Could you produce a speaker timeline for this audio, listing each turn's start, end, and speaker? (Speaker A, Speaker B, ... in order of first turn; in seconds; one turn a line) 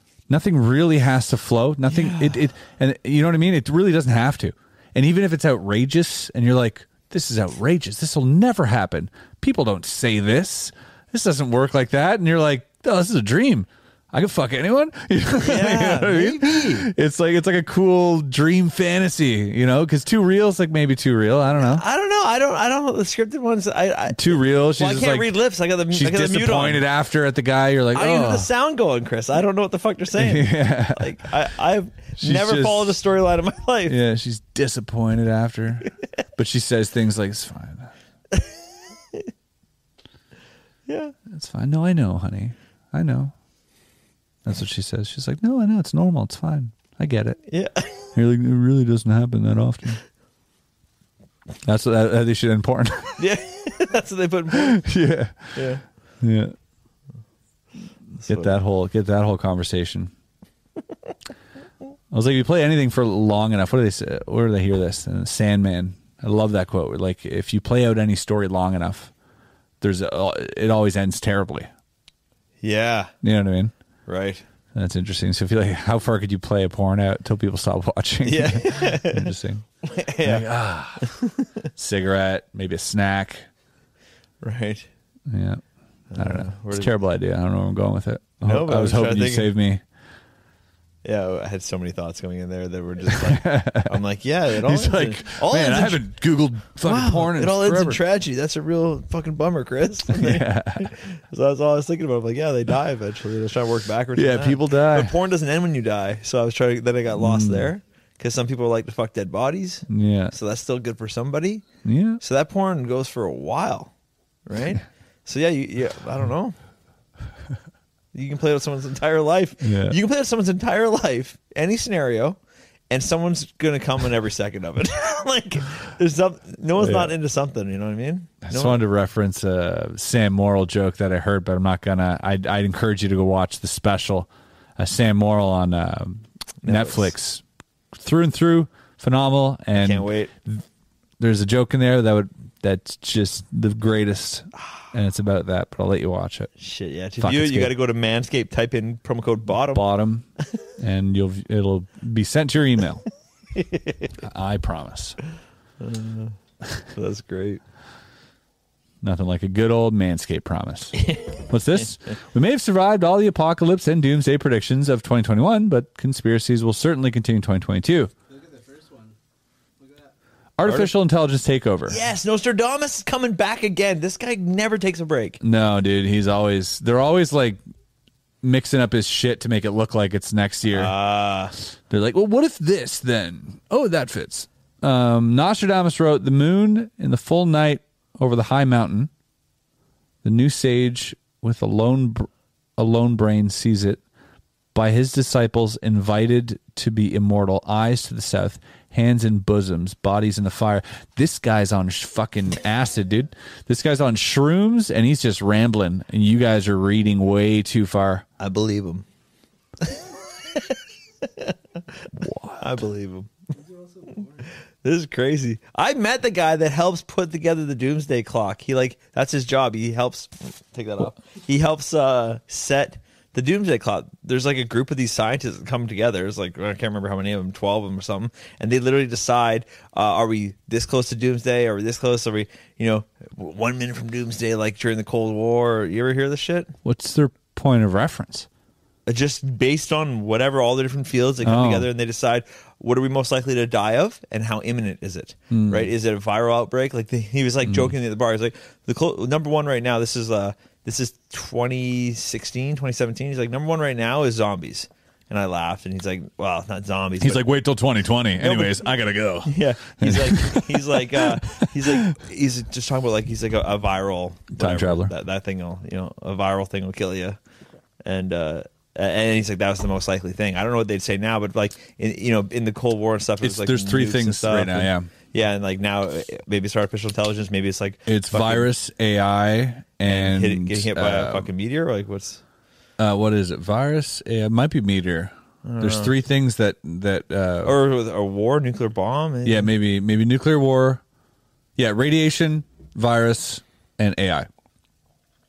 Speaker A: 0.3-21.8
Speaker B: 1.9-2.4
Speaker B: 15.4-16.9
Speaker B: 21.6-26.8
Speaker A: 24.1-25.3
Speaker A: 25.9-28.5
Speaker B: 27.9-34.0
Speaker A: 30.2-31.1
Speaker A: 32.2-33.0
Speaker A: 33.9-37.9
Speaker B: 40.9-41.1
Speaker A: 41.3-43.3
Speaker A: 44.4-47.4
Speaker B: 47.5-48.1
Speaker A: 48.1-50.0
Speaker A: 51.6-53.2
Speaker B: 53.2-54.8
Speaker A: 54.5-55.6
Speaker B: 55.5-55.8
Speaker A: 56.2-56.5
Speaker B: 58.2-58.5
Speaker A: 58.2-60.1
Speaker A: 62.1-69.1
Speaker A: 69.8-71.7
Speaker B: 72.6-73.1
Speaker A: 73.2-73.7
Speaker B: 74.1-74.4
Speaker A: 74.7-79.6
Speaker B: 78.2-80.5
Speaker A: 80.2-81.1
Speaker B: 81.0-81.7
Speaker A: 81.8-83.5
Speaker B: 84.4-84.9
Speaker A: 85.3-85.6
Speaker B: 86.1-86.9
Speaker A: 86.2-89.8
Speaker B: 88.4-89.5
Speaker B: 91.0-96.0
Speaker A: 93.1-94.0
Speaker A: 94.5-98.0
Speaker B: 96.8-111.7
Speaker A: 100.1-100.9
Speaker A: 104.1-105.1
Speaker A: 107.1-107.7
Speaker A: 109.9-110.3
Speaker A: 111.8-112.2
Speaker B: 112.2-113.9
Speaker B: 114.5-116.5
Speaker B: 118.1-122.4
Speaker A: 119.6-120.0
Speaker B: 122.9-128.8
Speaker A: 126.8-127.1
Speaker A: 128.4-137.4
Speaker B: 136.6-137.1
Speaker A: 137.9-140.6
Speaker B: 139.7-140.3
Speaker A: 141.2-146.5
Speaker B: 146.6-149.8
Speaker A: 147.2-147.7
Speaker A: 149.7-150.2
Speaker A: 150.8-153.0
Speaker B: 153.6-154.1
Speaker A: 154.2-155.2
Speaker B: 155.8-156.4
Speaker B: 156.9-157.6
Speaker A: 159.0-168.1
Speaker C: 168.3-169.2
Speaker C: 169.8-170.1
Speaker A: 170.6-172.0
Speaker B: 170.6-170.9
Speaker B: 171.9-175.4
Speaker A: 175.4-177.6
Speaker A: 178.4-180.9
Speaker B: 180.7-181.5
Speaker A: 181.9-189.1
Speaker A: 190.2-194.0
Speaker A: 194.7-208.2
Speaker B: 208.4-209.0
Speaker B: 209.8-211.5
Speaker A: 212.1-212.8
Speaker B: 212.6-213.3
Speaker C: 213.5-214.5
Speaker B: 214.8-236.7
Speaker A: 236.8-238.5
Speaker B: 239.1-257.5
Speaker A: 241.4-241.9
Speaker A: 245.5-245.9
Speaker A: 247.7-247.9
Speaker A: 257.2-262.0
Speaker B: 258.4-258.8
Speaker B: 259.4-267.4
Speaker A: 264.5-265.1
Speaker B: 268.0-278.7
Speaker A: 273.4-275.1
Speaker A: 278.1-281.5
Speaker B: 280.0-282.4
Speaker A: 283.0-287.7
Speaker B: 285.6-286.1
Speaker B: 287.6-289.7
Speaker A: 289.4-291.0
Speaker A: 291.8-294.5